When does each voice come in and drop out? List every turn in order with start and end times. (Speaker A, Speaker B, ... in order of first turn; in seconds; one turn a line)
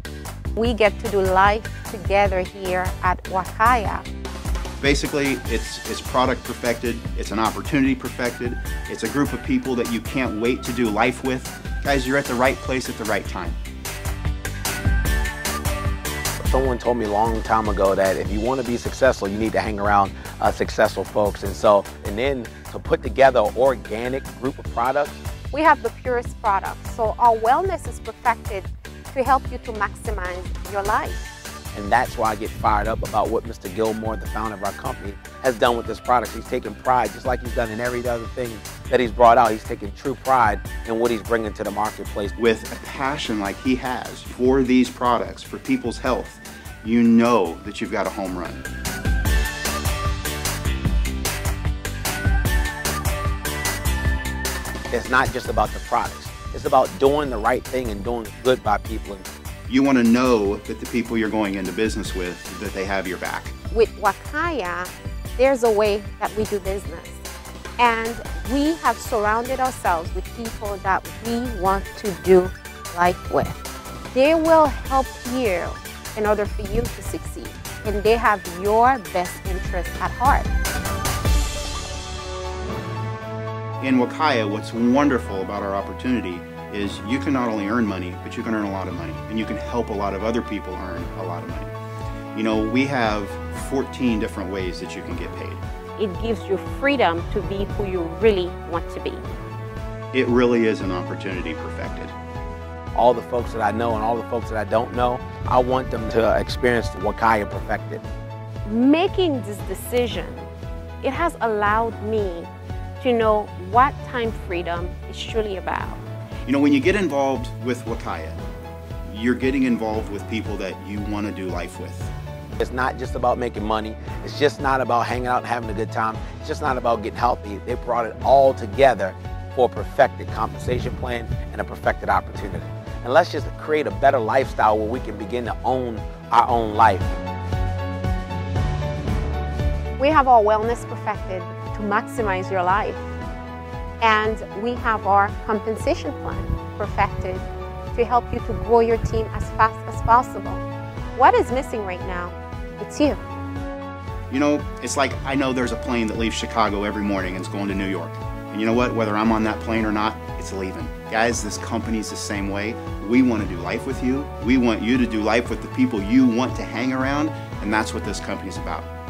Speaker A: 0.6-4.0
Speaker B: 4.8-13.6
Speaker C: 16.4-25.2
Speaker A: 25.5-31.3
Speaker C: 31.7-42.3
Speaker B: 42.4-48.6
Speaker C: 54.9-59.3
Speaker B: 59.7-63.5
Speaker A: 63.7-67.2
Speaker A: 67.8-73.6
Speaker A: 74.1-80.5
Speaker B: 83.8-91.7
Speaker B: 92.3-95.6
Speaker A: 96.0-99.2
Speaker B: 100.1-102.1
Speaker C: 102.9-108.0
Speaker A: 108.6-110.5
Speaker A: 111.0-116.0
Speaker B: 116.5-118.4
Speaker B: 119.1-122.1
Speaker C: 122.6-137.2
Speaker A: 140.0-143.1
Speaker A: 144.0-153.2
Speaker B: 154.3-168.9